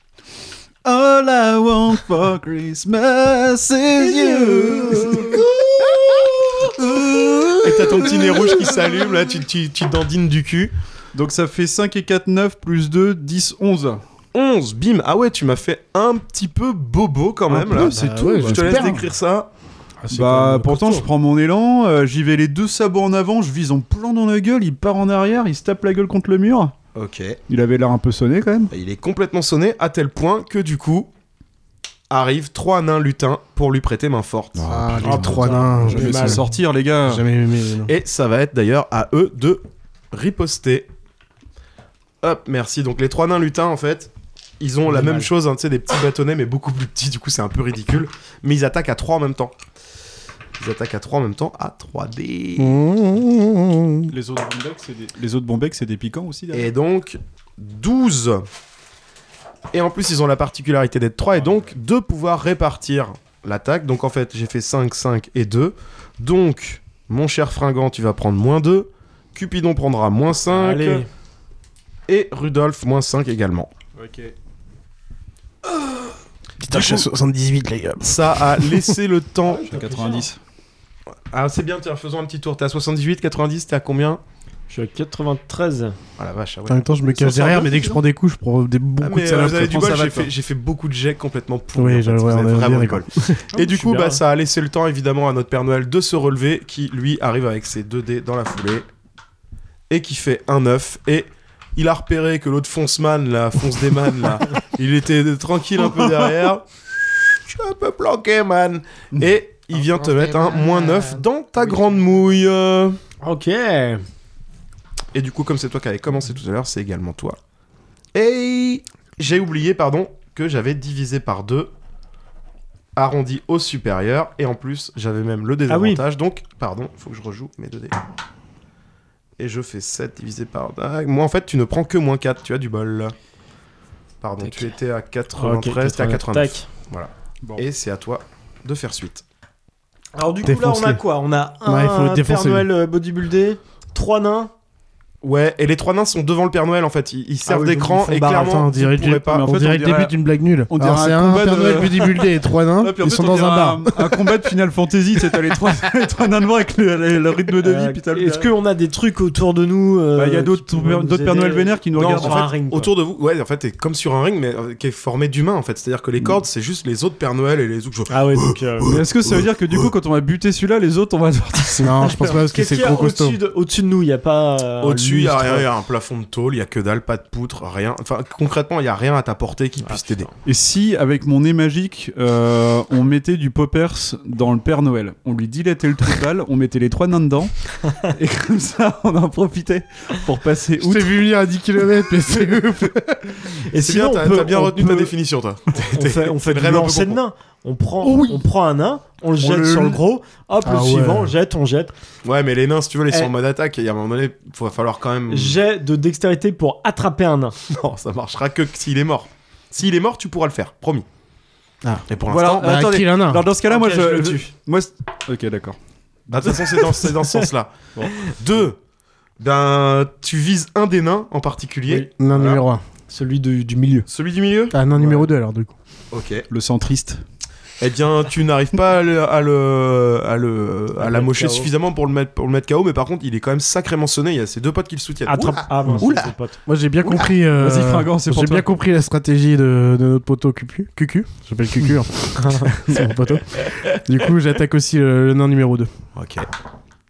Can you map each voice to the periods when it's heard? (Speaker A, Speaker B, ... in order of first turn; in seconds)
Speaker A: 0.8-8.9, 11.1-14.0, 17.5-19.1, 20.1-26.7, 27.5-28.7, 34.6-37.2, 54.1-56.7, 61.4-61.7, 74.0-74.3, 79.7-80.4, 149.2-150.2, 150.7-158.5, 160.2-162.5, 168.8-172.3, 180.4-191.2, 199.4-200.0, 212.2-215.8, 225.0-225.3, 226.5-227.2, 237.5-238.7
Speaker B: 4.3-5.3, 7.6-10.7, 14.3-19.5, 26.9-27.4, 28.7-31.1, 32.1-36.3, 37.9-40.9, 42.2-49.5, 50.6-52.8, 56.5-58.5, 59.7-71.0, 72.1-73.7, 76.7-77.0, 78.0-79.7, 81.3-84.2, 86.2-88.0, 89.0-98.8, 99.9-106.6, 107.4-113.0, 115.1-117.4, 118.1-121.7, 123.0-128.0, 129.4-133.1, 134.2-139.2, 145.2-149.5, 161.9-169.8, 174.8-180.3, 193.8-197.2, 202.2-205.6, 207.7-211.1, 212.1-212.8, 216.3-218.8, 219.4-222.6, 224.1-224.8, 226.1-226.4, 227.8-236.2, 246.2-246.5
Speaker C: 4.5-5.1, 17.6-19.1, 20.0-21.1, 34.7-36.5, 37.0-37.9, 52.6-54.1, 76.6-79.0, 86.7-90.3, 91.8-93.4, 140.4-141.0, 141.6-142.7, 148.1-154.3, 171.8-173.4, 190.8-193.5, 198.1-198.3, 200.6-201.3, 212.6-213.4, 222.2-222.8, 224.7-225.7, 236.7-245.9
Speaker D: 35.0-36.3, 44.9-45.3, 70.5-71.1, 79.4-80.3, 84.7-86.0, 93.5-94.2, 113.2-114.0, 125.7-126.0, 135.4-136.7, 140.1-144.5, 147.4-148.4, 157.6-162.9, 168.1-168.9, 172.2-175.7, 179.8-180.3, 193.7-195.1, 195.7-201.9, 205.3-207.6, 213.7-214.5, 223.1-224.1, 231.0-231.7, 235.2-236.6, 242.4-242.7